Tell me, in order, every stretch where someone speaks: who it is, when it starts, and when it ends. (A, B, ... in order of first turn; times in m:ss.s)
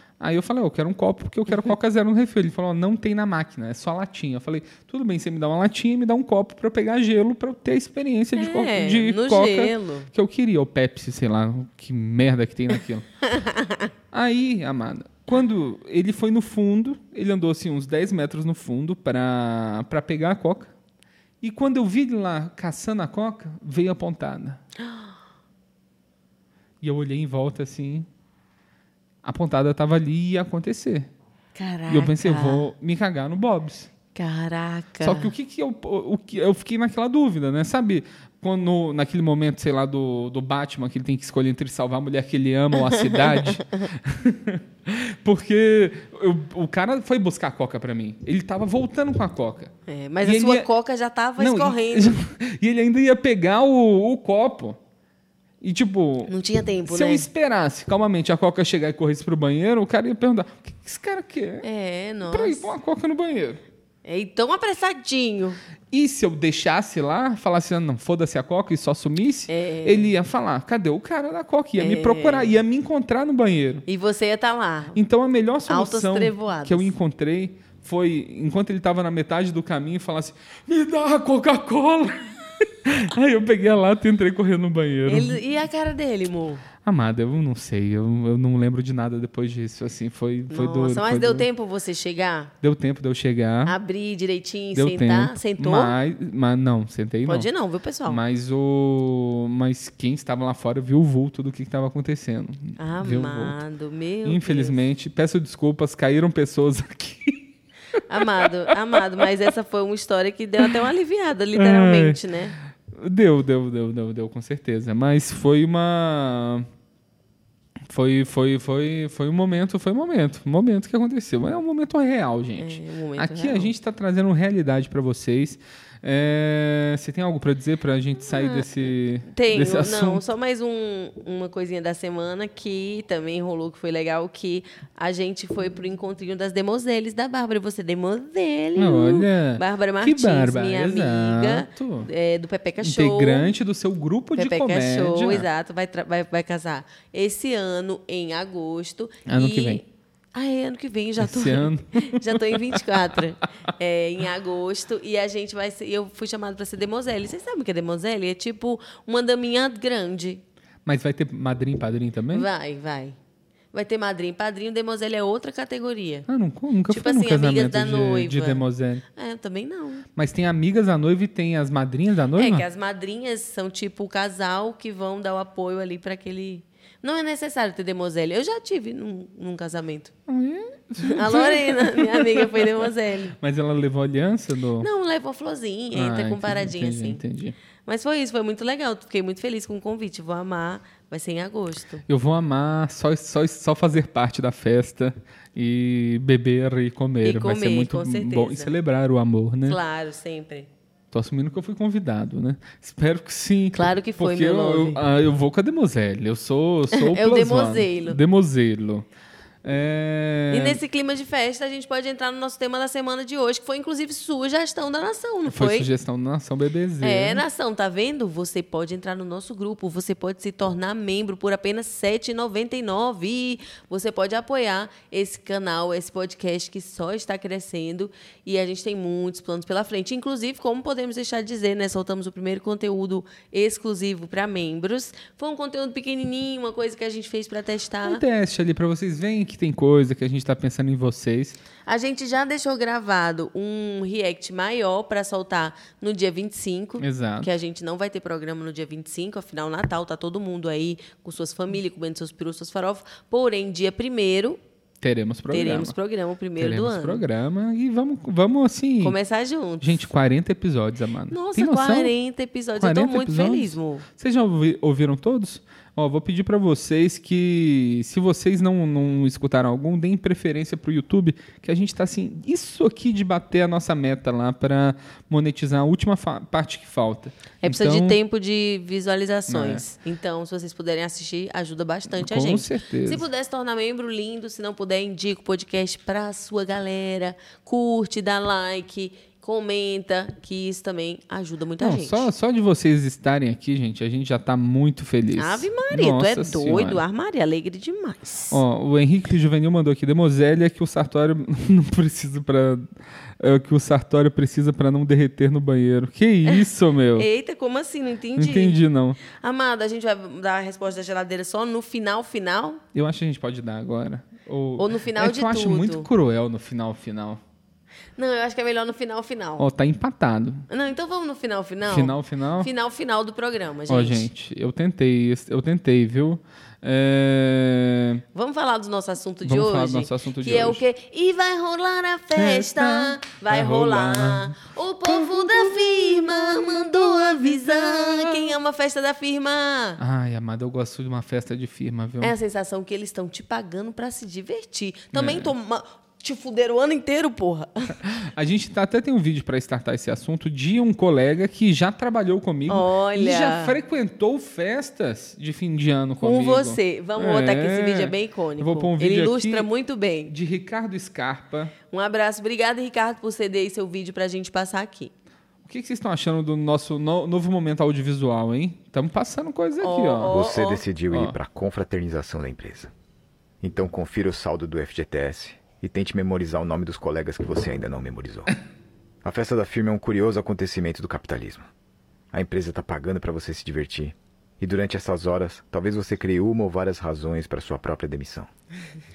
0:00.2-0:13.1 A
0:08.4-0:10.1 B
0:13.3-0:13.9 B
0:14.1-0:20.7 A
0:21.4-0:24.6 A
0:24.8-0:25.1 B
0:26.8-0:28.1 A
0:29.2-0:31.1 A
0:31.6-0:32.7 B
0:31.9-0:33.9 A
0:34.1-0:35.3 B
0:35.0-0:50.7 A
0:42.9-0:43.8 B
0:49.9-0:52.2 B
0:51.4-0:54.8 A
0:55.6-0:56.3 A
0:56.3-0:57.3 B
0:56.8-1:01.6 A
1:01.6-1:02.7 B
1:02.3-1:03.6 A
1:04.0-1:05.6 B
1:05.9-1:13.8 A
1:09.5-1:10.1 B
1:11.8-1:12.6 B
1:13.9-1:15.0 B
1:14.9-1:25.4 A
1:15.7-1:16.9 B
1:25.1-1:26.6 B
1:26.8-1:31.5 A
1:30.5-1:32.5 B
1:32.6-1:33.8 A
1:33.6-1:35.9 B
1:34.7-1:37.5 A
1:37.2-1:38.2 B
1:38.0-1:43.6 A
1:42.8-1:44.8 B
1:44.2-1:47.4 A
1:48.0-1:49.3 A
1:48.1-1:52.6 B
1:51.5-1:52.2 A
1:52.9-1:56.7 A
1:57.9-2:10.2 A
2:02.6-2:03.7 B
2:08.3-2:08.7 B
2:09.3-2:23.5 B
2:18.8-2:22.1 A
2:22.8-2:25.4 A
2:24.4-2:40.4 B
2:29.3-2:29.8 A
2:31.2-2:32.8 A
2:40.8-2:42.5 A
2:42.3-2:43.2 B
2:43.7-2:46.3 B
2:46.3-2:49.0 A
2:46.9-2:50.0 B
2:50.2-2:52.6 A
2:52.4-3:00.1 B
3:00.3-3:04.9 A
3:01.0-3:03.4 B
3:04.8-3:07.2 B
3:05.9-3:07.6 A
3:07.8-3:12.0 B
3:12.1-3:19.8 A
3:17.2-3:18.7 B
3:19.6-3:20.7 B
3:21.1-3:29.0 A
3:23.7-3:25.0 B
3:26.9-3:28.2 B
3:29.6-3:30.8 A
3:30.5-3:35.9 B
3:35.5-3:37.4 A
3:37.0-3:58.2 B
3:58.0-4:01.6 A
4:01.8-4:14.6 B
4:07.0-4:07.5 A
4:15.0-4:15.9 A
4:15.5-4:17.2 B
4:16.6-4:19.2 A
4:19.0-4:20.1 B
4:19.8-4:22.1 A
4:21.3-4:24.0 B
4:22.8-4:38.2 A
4:37.6-4:52.3 B
4:39.5-4:39.8 A
4:42.1-4:43.2 A
4:51.8-4:57.0 A
4:55.4-4:58.6 B
4:58.5-5:07.3 A
5:07.2-5:12.8 B
5:08.4-5:09.2 A
5:12.9-5:17.4 A
5:14.8-5:16.1 B
5:18.2-5:19.7 B
5:19.6-5:20.7 A
5:20.7-5:24.3 B
5:21.8-5:22.7 A
5:23.9-5:28.2 A
5:28.3-5:40.0 B
5:29.4-5:30.8 A
5:32.3-5:38.5 A
5:40.0-5:42.3 A
5:42.2-5:48.0 B
5:45.1-5:45.5 A
5:48.0-5:59.7 A
5:52.7-5:53.8 B
5:56.2-6:00.3 B
6:00.3-6:01.7 A
6:01.9-6:05.1 B
6:05.6-6:10.4 A
6:09.8-6:10.8 B
6:10.3-6:12.9 C
6:11.1-6:11.4 A
6:13.6-6:18.6 C
6:19.2-6:21.7 C
6:22.3-6:28.5 C